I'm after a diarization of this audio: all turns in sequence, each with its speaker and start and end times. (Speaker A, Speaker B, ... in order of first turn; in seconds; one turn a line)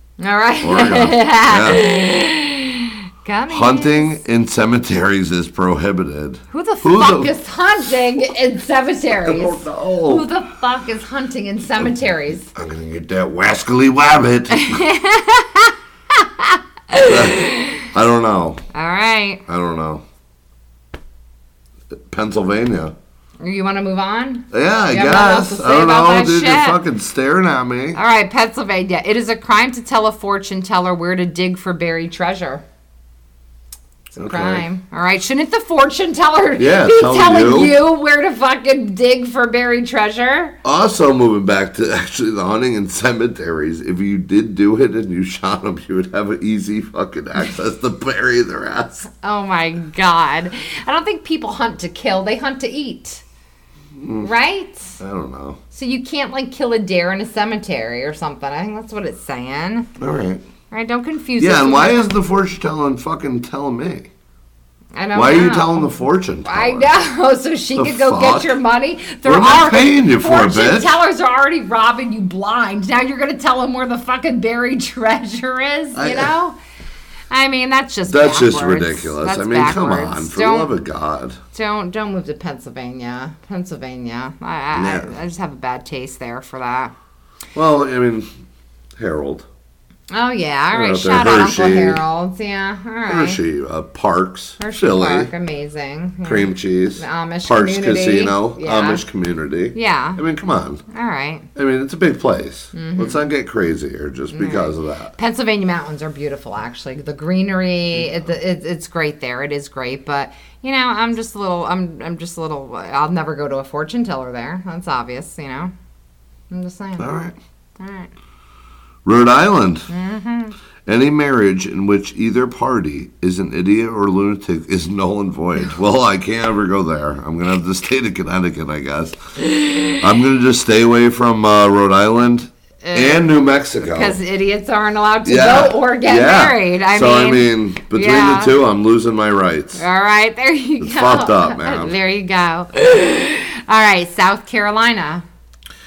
Speaker A: 0.2-4.2
Speaker B: 0.6-1.8
Speaker B: 3.5-7.3
Speaker A: 6.5-12.5
Speaker B: 9.2-10.3
Speaker B: 12.5-14.8
Speaker A: 14.5-17.9
Speaker B: 17.0-18.6
Speaker A: 18.7-19.4
Speaker B: 19.5-20.0
Speaker B: 21.9-22.9
Speaker A: 23.4-26.8
Speaker B: 24.5-28.0
Speaker A: 27.9-32.6
Speaker A: 34.1-40.5
Speaker B: 34.2-34.6
Speaker B: 36.6-37.8
Speaker B: 40.6-49.0
Speaker A: 49.1-53.2
Speaker B: 53.9-54.3
Speaker A: 54.2-55.0
Speaker B: 55.0-55.6
Speaker A: 55.7-59.9
Speaker B: 60.0-60.4
Speaker A: 60.7-62.0
Speaker B: 61.4-64.1
Speaker A: 64.9-76.6
Speaker B: 65.1-66.9
Speaker B: 67.7-68.5
Speaker B: 69.2-71.0
Speaker B: 75.9-76.3
Speaker A: 77.3-80.7
Speaker B: 78.0-81.4
Speaker A: 81.5-86.9
Speaker B: 84.7-85.1
Speaker B: 87.5-88.3
Speaker B: 89.0-89.5
Speaker A: 90.1-93.4
Speaker B: 90.7-92.0
Speaker B: 93.1-95.3
Speaker A: 94.6-99.0
Speaker B: 96.2-100.8
Speaker A: 99.7-100.2
Speaker A: 100.9-101.5
Speaker B: 101.5-105.1
Speaker A: 102.7-103.3
Speaker A: 104.3-115.7
Speaker A: 116.5-117.1
Speaker B: 117.0-117.3
Speaker A: 117.8-118.1
Speaker B: 119.0-119.9
Speaker A: 119.9-120.5
Speaker B: 120.8-129.2
Speaker A: 129.5-130.0
Speaker B: 130.0-134.2
Speaker A: 132.8-138.6
Speaker B: 135.2-139.8
Speaker A: 139.7-145.2
Speaker B: 140.8-141.9